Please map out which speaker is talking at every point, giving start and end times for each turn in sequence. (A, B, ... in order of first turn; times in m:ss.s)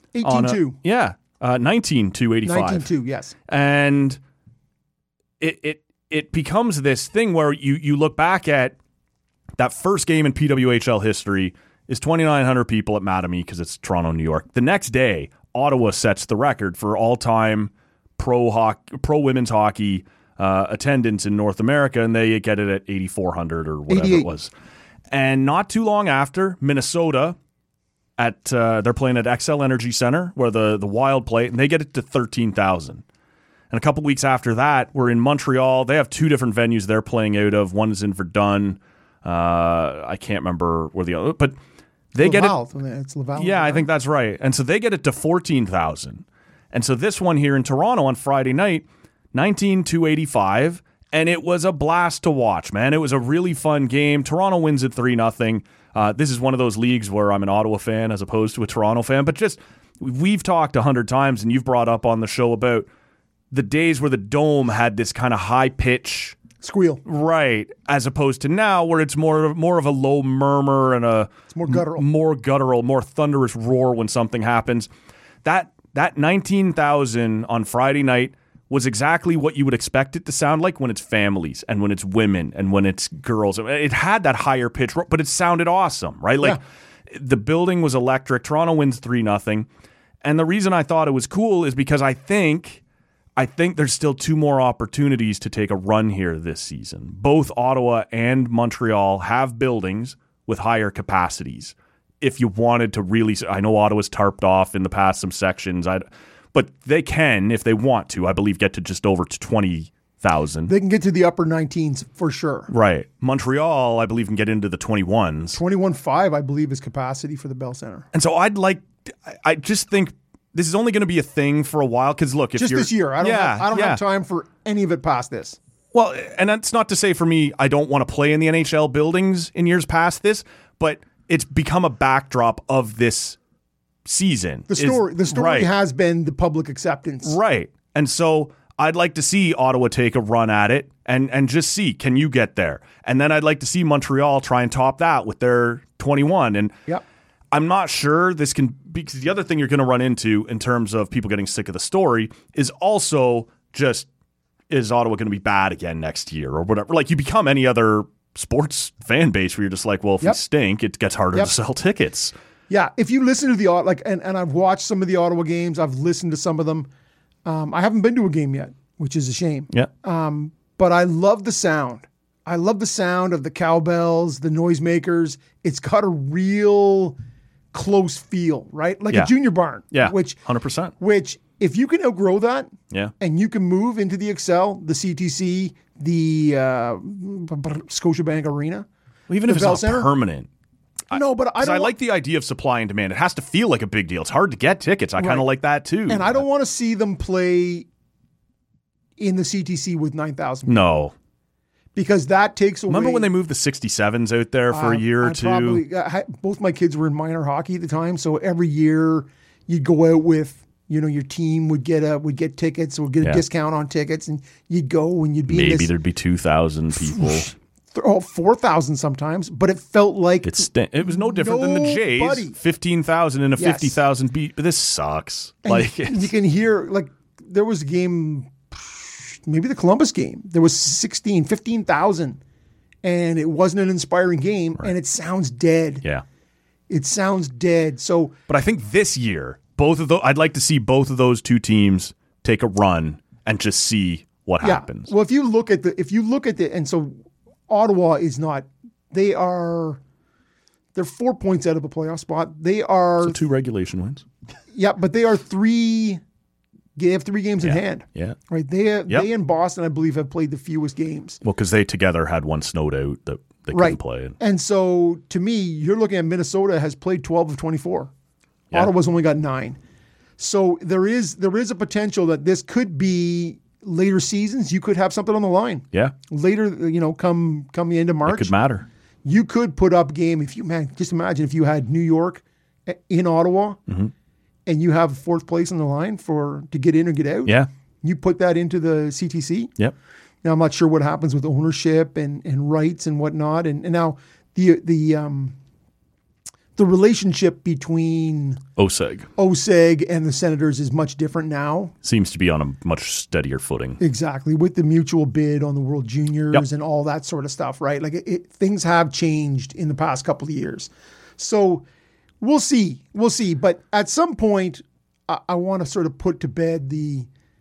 0:00.1-0:00.8 A
0:00.2-0:02.9 B
0:02.4-0:03.3 A
0:03.5-0:04.2 B
0:05.4-0:08.8 B
0:09.6-0:24.5 B
0:23.9-0:24.3 A
0:25.1-0:27.4 B
0:28.2-0:33.0 B
0:33.7-0:41.6 B
0:42.1-0:42.6 B
0:42.2-0:43.8 A
0:43.4-1:02.9 B
1:03.5-1:06.4 B
1:06.6-1:07.0 A
1:07.0-1:14.9 B
1:11.5-1:12.1 A
1:15.4-1:29.7 B
1:30.2-1:32.8 B
1:33.4-1:50.7 B
1:50.7-1:52.7 A
1:52.7-1:55.6 B
1:55.5-1:58.1 A
1:58.1-2:04.0 B
2:02.6-2:05.6 A
2:05.9-2:13.4 B
2:14.0-2:15.7 B
2:14.7-2:17.4 A
2:17.2-2:26.8 B
2:27.5-2:34.1 B
2:34.7-2:42.3 B
2:42.7-2:46.9 A
2:47.4-2:57.2 A
2:57.7-3:00.4 A
2:59.9-3:00.9 B
3:01.0-3:08.8 A
3:09.3-3:10.5 B
3:09.4-3:10.1 A
3:11.1-3:11.9 A
3:11.1-3:16.4 B
3:15.2-3:15.5 A
3:16.1-3:17.9 A
3:19.2-3:20.9 A
3:20.7-3:21.1 B
3:21.9-3:23.3 A
3:22.9-3:25.8 B
3:24.7-3:35.9 A
3:35.5-3:37.5 B
3:37.0-3:42.6 A
3:40.4-3:46.3 B
3:43.6-3:44.0 A
3:45.6-3:52.4 A
3:53.0-3:56.0 A
3:56.9-3:58.4 A
3:58.5-4:05.1 B
4:04.6-4:07.2 A
4:07.7-4:10.0 A
4:10.9-4:13.4 A
4:13.2-4:14.2 B
4:14.7-4:16.2 A
4:17.0-4:21.4 A
4:17.6-4:18.4 B
4:21.4-4:24.4 B
4:23.7-4:28.1 A
4:28.7-4:29.8 A
4:30.4-4:38.5 A
4:38.2-4:38.9 B
4:39.2-4:43.8 A
4:44.6-4:49.7 A
4:50.4-4:55.5 A
4:56.8-4:58.6 A
4:58.8-4:59.3 B
4:59.4-5:01.9 A
5:02.0-5:04.0 B
5:04.0-5:11.8 A
5:12.4-5:17.3 A